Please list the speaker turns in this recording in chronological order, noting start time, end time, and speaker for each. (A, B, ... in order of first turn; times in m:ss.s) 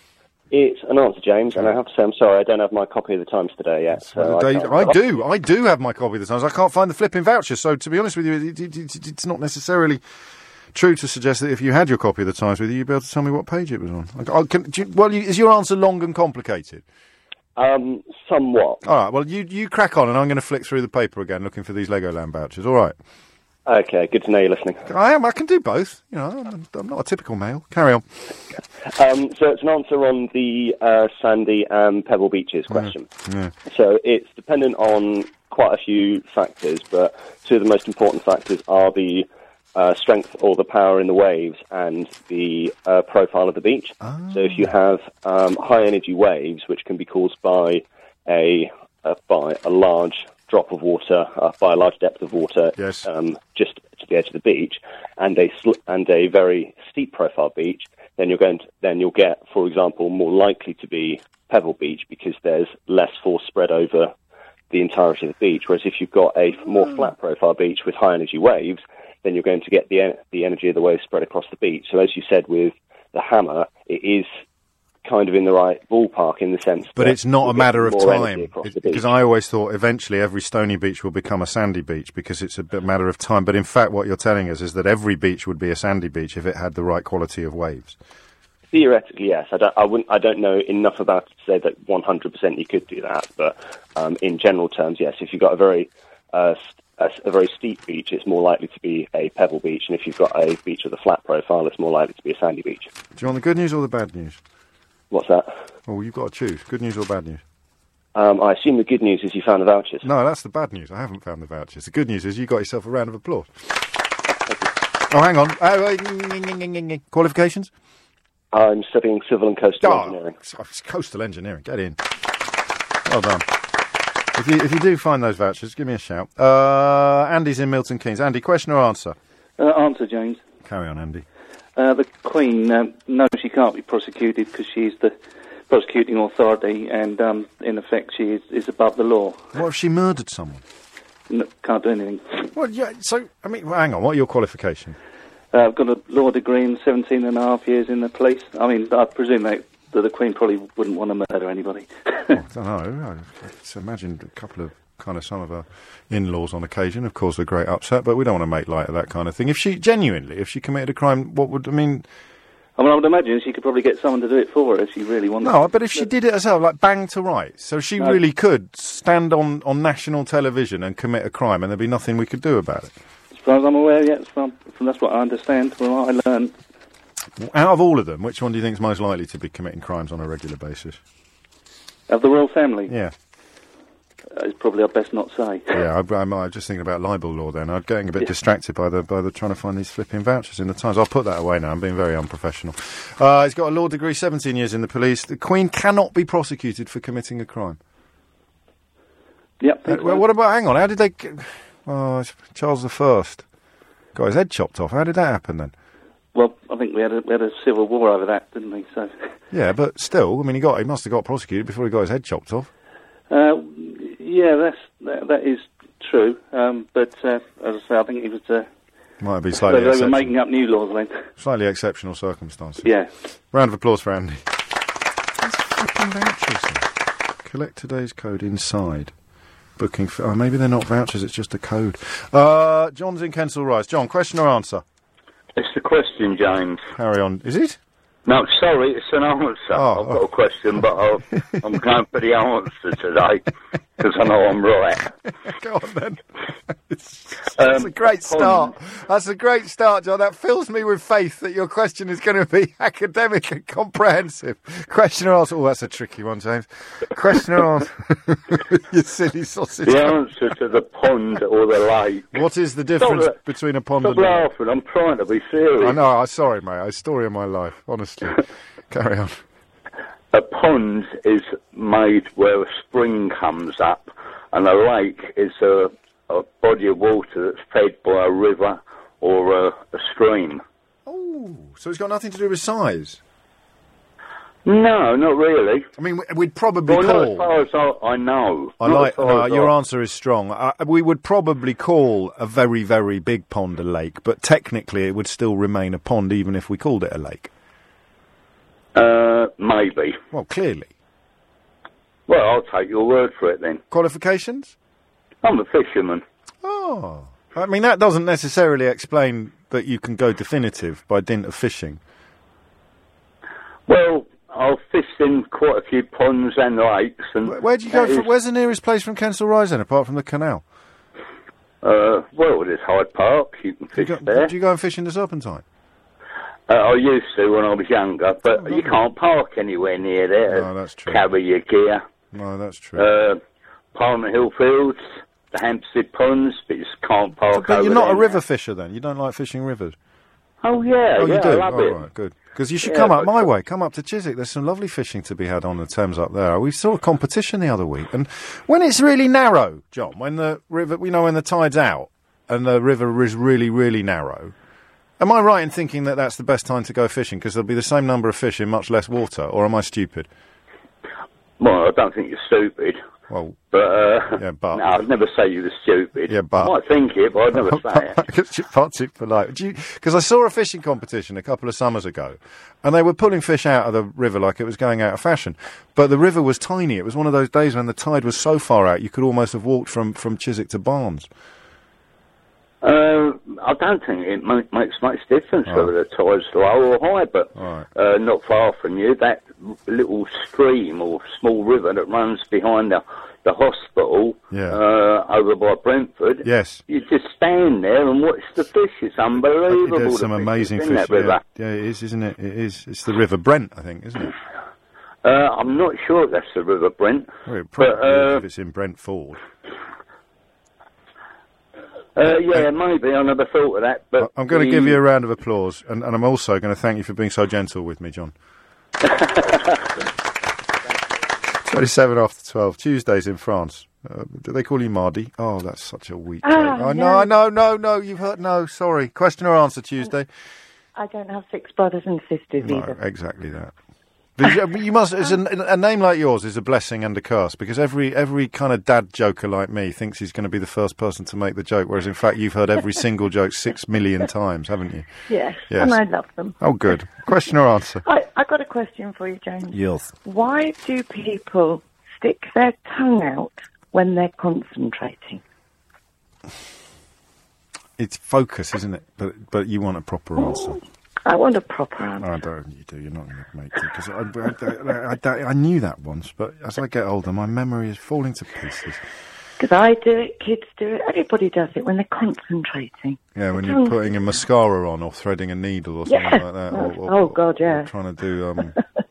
0:00.5-0:05.0 A
0:04.0-0:10.0 B
0:10.7-0:16.8 B
0:17.6-0:18.8 A
0:18.8-0:22.9 B
0:23.6-0:24.8 A
0:24.8-0:28.0 B
0:28.9-0:33.1 A
0:32.7-0:33.5 B
0:33.7-1:04.1 A
0:44.0-0:44.7 B
0:52.8-0:53.1 B
1:04.7-1:14.3 A
1:15.0-1:19.1 A
1:16.9-1:28.0 B
1:28.7-1:42.9 A
1:43.2-1:44.4 B
1:45.1-1:45.5 A
1:45.9-1:47.4 B
1:48.1-1:50.1 A
1:50.0-1:53.5 B
1:55.1-1:57.7 B
1:58.5-2:00.3 A
1:59.8-2:02.0 B
2:03.0-2:03.5 B
2:04.3-2:09.2 B
2:09.6-2:10.4 C
2:10.6-2:11.2 B
2:11.8-2:15.2 C
2:15.7-2:19.5 C
2:19.5-2:20.6 B
2:21.3-2:22.5 C
2:22.5-2:25.0 B
2:25.5-2:32.4 C
2:32.3-2:42.0 B
2:42.8-2:46.1 C
2:45.4-2:52.9 B
2:53.3-2:56.5 C
2:57.4-3:01.0 B
3:02.1-3:02.9 C
3:02.9-3:03.1 B
3:04.3-3:05.8 C
3:05.7-3:17.8 B
3:19.6-3:20.2 C
3:19.9-3:23.4 B
3:24.1-3:25.7 B
3:26.3-3:29.3 C
3:29.5-3:32.7 B
3:33.3-3:38.7 C
3:39.2-3:40.3 B
3:39.6-3:41.3 C
3:41.4-3:42.9 B
3:42.8-3:43.1 C
3:43.5-3:44.4 B
3:45.4-3:46.9 B
3:47.4-3:49.1 B
3:49.8-3:54.8 B
3:55.6-3:56.8 D
3:56.9-3:57.8 B
3:58.2-4:05.1 D
3:59.7-4:00.2 B
4:05.4-4:20.2 B
4:07.6-4:08.7 D
4:19.8-4:22.4 D
4:22.3-4:24.5 B
4:23.0-4:23.3 D
4:24.0-4:26.0 D
4:25.8-4:29.4 B
4:30.3-4:40.6 D
4:41.0-4:43.2 B
4:44.6-4:45.8 D
4:46.0-4:47.5 B
4:46.9-4:49.7 D
4:48.8-4:57.5 B
4:58.9-5:00.2 D
5:00.3-5:00.9 B
5:02.3-5:03.8 D
5:03.9-5:04.7 B
5:05.4-5:06.2 D
5:06.6-5:12.0 B
5:13.9-5:18.2 D
5:17.4-5:20.6 B
5:21.8-5:24.5 D
5:24.0-5:25.6 B
5:26.7-5:32.0 D
5:28.5-5:29.0 B
5:30.5-5:31.2 B
5:32.3-5:33.0 B
5:33.0-5:33.4 D
5:33.9-5:38.4 D
5:37.5-5:40.0 B
5:40.6-5:42.0 D
5:41.2-5:54.5 B
5:42.8-5:43.5 D
5:55.2-6:00.3 B
6:01.6-6:03.0 D
6:03.3-6:03.6 B
6:03.7-6:08.2 D
6:04.3-6:04.9 B
6:06.3-6:06.7 B
6:07.5-6:21.3 B
6:22.8-6:41.4 D
6:25.6-6:25.9 B
6:27.6-6:27.9 B
6:34.5-6:34.8 B
6:36.4-6:36.8 B
6:39.7-6:44.3 B
6:45.2-6:48.4 D
6:47.4-6:49.4 B
6:52.2-6:55.0 D
6:54.2-6:58.3 B
7:01.6-7:10.3 B
7:06.4-7:07.3 E
7:11.0-7:13.0 E
7:12.6-7:13.7 B
7:14.4-7:25.1 B
7:25.3-7:26.6 E
7:25.7-7:26.0 B
7:26.6-7:28.0 B
7:28.0-7:35.4 E
7:29.7-7:30.1 B
7:38.0-7:40.8 B
7:41.2-7:42.3 E
7:42.2-7:49.0 B
7:49.6-7:54.0 E
7:53.4-7:58.8 B
7:56.1-7:57.9 E